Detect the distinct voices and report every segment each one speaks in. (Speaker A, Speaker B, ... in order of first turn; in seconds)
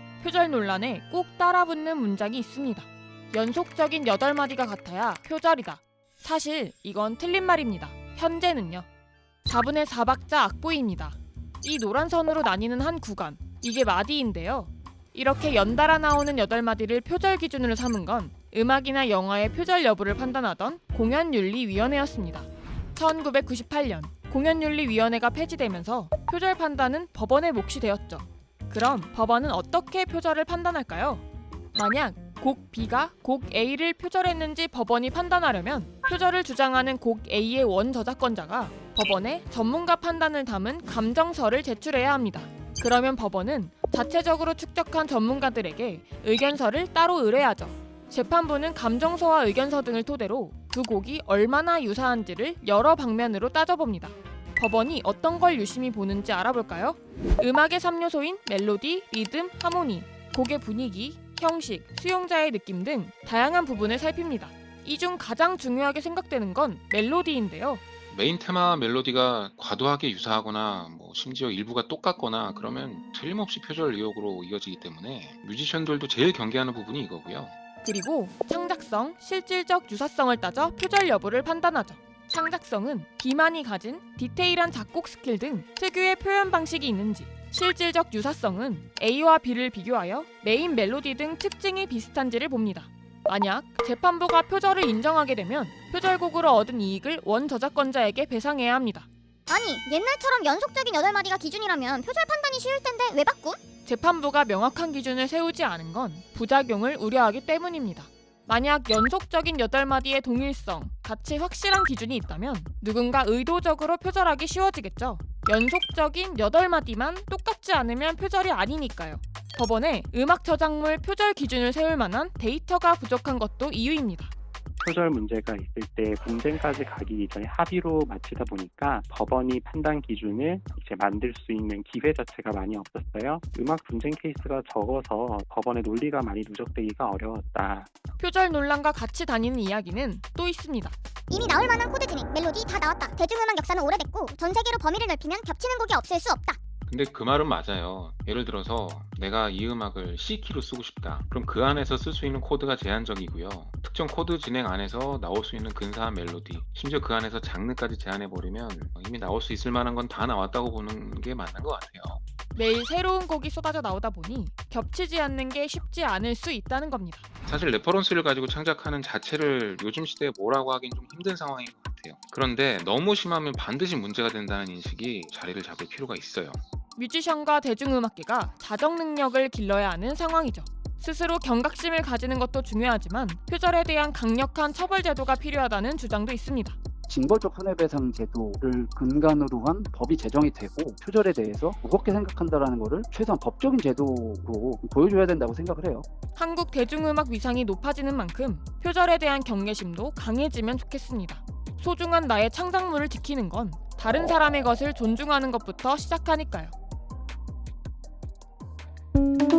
Speaker A: 0.2-8.9, 9.4-67.8, 77.8-99.1, 103.8-124.3, 138.2-140.9, 162.5-167.2, 176.9-186.8, 196.3-206.7
Speaker B: 68.1-77.5, 146.9-162.2, 167.5-176.6
Speaker C: 99.5-103.6, 141.3-146.6
Speaker D: 124.8-137.9
Speaker E: 187.1-196.1